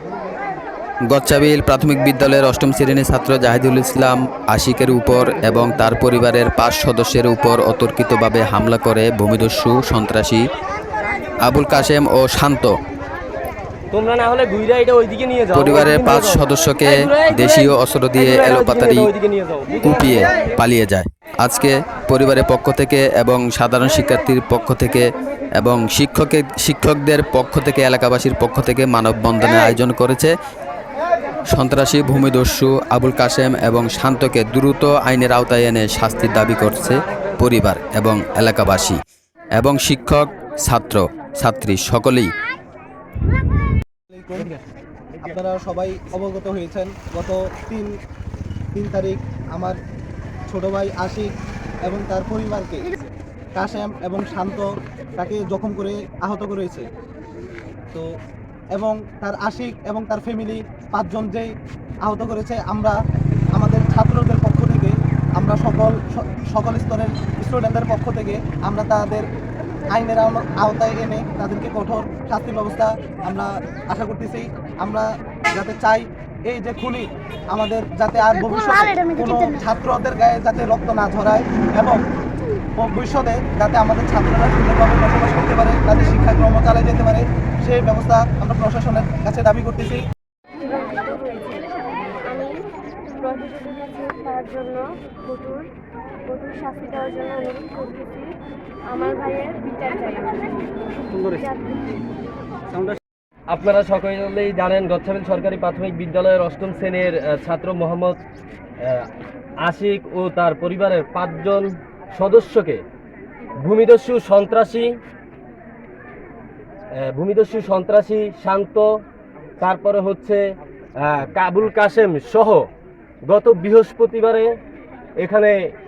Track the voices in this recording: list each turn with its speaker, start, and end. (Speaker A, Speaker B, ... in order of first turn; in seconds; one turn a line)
Speaker A: 1.1-10.5
Speaker A: 11.4-12.8
Speaker B: 13.9-20.3
Speaker A: 15.5-19.1
Speaker A: 19.8-25.1
Speaker A: 25.6-30.3
Speaker A: 31.5-39.0
Speaker A: 39.6-42.3
Speaker C: 44.1-44.5
Speaker C: 45.2-47.9
Speaker C: 48.8-49.8
Speaker C: 50.5-51.3
Speaker C: 51.9-56.9
Speaker C: 58.7-61.5
Speaker C: 62.0-63.0
Speaker C: 63.5-69.2
Speaker C: 69.9-82.0
Speaker D: 78.6-79.6
Speaker C: 82.8-90.0
Speaker D: 90.6-92.6
Speaker D: 93.2-95.7
Speaker D: 96.3-98.3
Speaker D: 98.9-102.0
Speaker B: 103.5-108.2
Speaker B: 108.8-109.1
Speaker B: 109.7-112.8
Speaker B: 113.6-114.9
Speaker B: 117.0-118.9
Speaker B: 119.6-120.4
Speaker B: 121.0-122.7
Speaker B: 123.3-124.5
Speaker B: 125.2-125.6